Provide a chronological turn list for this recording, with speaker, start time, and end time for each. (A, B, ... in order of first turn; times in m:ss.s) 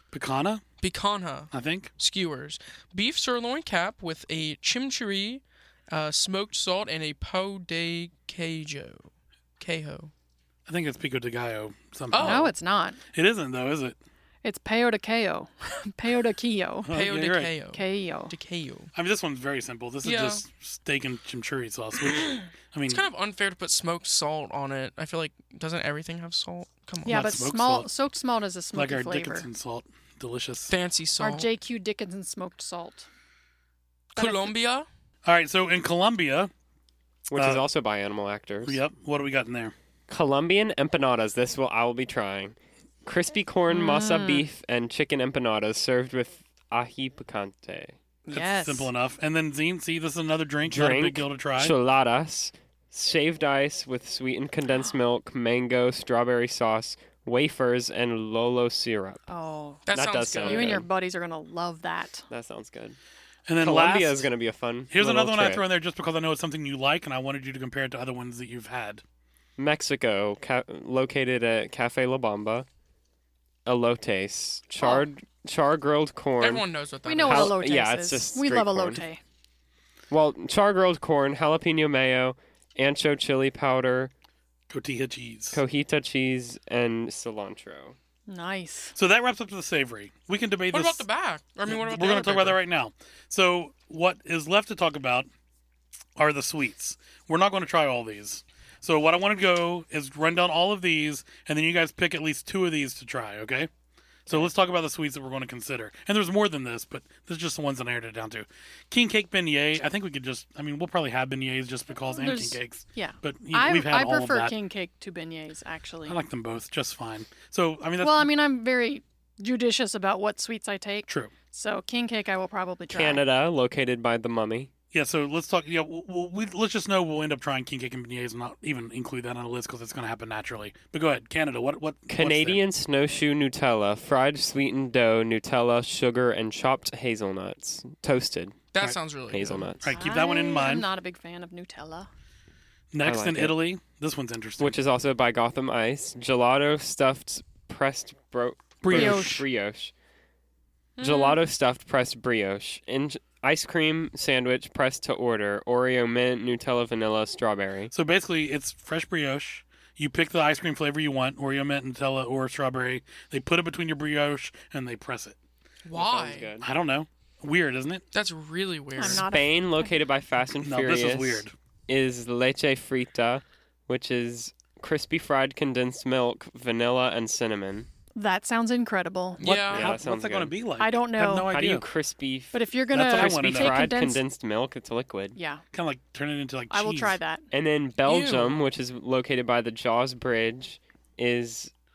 0:00.1-0:00.6 A
0:00.8-0:09.1 B
0:01.5-0:01.9 A
0:09.6-0:10.1 B
0:10.7-0:12.5 A
0:12.1-0:12.5 B
0:12.2-0:13.0 C
0:13.1-0:14.0 A
0:14.4-0:16.9 C
0:16.8-0:17.5 A
0:16.9-0:18.9 B
0:17.7-0:18.3 C
0:18.9-0:23.0 A
0:20.0-0:20.4 B
0:22.9-0:27.2 B
0:27.0-0:29.5 C
0:27.0-0:27.9 A
0:28.7-0:30.7 A
0:30.7-0:31.5 B
0:31.2-0:33.1 C
0:34.1-0:34.9 B
0:34.2-0:34.5 C
0:35.2-0:36.5 A
0:37.3-0:38.8 D
0:37.3-0:37.6 A
0:38.6-0:39.7 A
0:40.1-0:48.0 D
0:43.7-0:44.4 C
0:48.3-0:51.7 A
0:48.3-0:48.9 C
0:50.6-0:59.2 D
0:59.3-0:59.8 C
0:59.9-1:00.8 B
0:59.9-1:00.9 D
1:00.4-1:02.2 C
1:02.3-1:03.0 D
1:03.5-1:04.3 A
1:03.6-1:05.6 D
1:04.9-1:09.0 A
1:09.6-1:12.7 D
1:13.6-1:16.6 D
1:16.4-1:17.5 B
1:17.0-1:19.2 C
1:17.2-1:19.0 D
1:20.1-1:24.1 D
1:24.7-1:25.6 A
1:25.5-1:28.0 D
1:28.3-1:28.9 C
1:28.9-1:31.1 A
1:30.7-1:32.6 B
1:31.7-1:35.3 A
1:36.2-1:43.7 A
1:44.3-1:54.5 A
1:52.1-1:56.2 C
1:56.1-1:58.3 A
1:58.0-2:03.2 C
2:01.1-2:01.3 A
2:02.9-2:04.7 D
2:04.9-2:12.6 A
2:12.1-2:18.6 D
2:18.7-2:19.7 B
2:19.3-2:19.9 D
2:19.8-2:20.9 A
2:19.9-2:22.1 C
2:22.9-2:24.8 A
2:23.0-2:23.5 D
2:24.6-2:29.9 D
2:28.8-2:29.4 A
2:28.9-2:29.4 C
2:31.0-2:31.4 B
2:31.0-2:37.9 D
2:37.9-2:45.4 A
2:45.8-2:46.5 B
2:45.9-2:46.7 D
2:46.6-2:48.0 A
2:48.1-2:49.2 B
2:49.0-2:49.9 C
2:49.0-2:57.9 D
2:50.6-2:51.5 A
2:58.2-2:59.4 C
2:59.4-2:59.9 B
2:59.4-3:01.8 A
2:59.7-3:00.5 D
3:00.8-3:01.5 C
3:01.4-3:05.4 D
3:02.5-3:04.2 C
3:02.9-3:03.8 A
3:05.4-3:05.6 C
3:05.7-3:07.2 A
3:06.7-3:07.4 C
3:07.5-3:11.7 D
3:08.0-3:08.6 B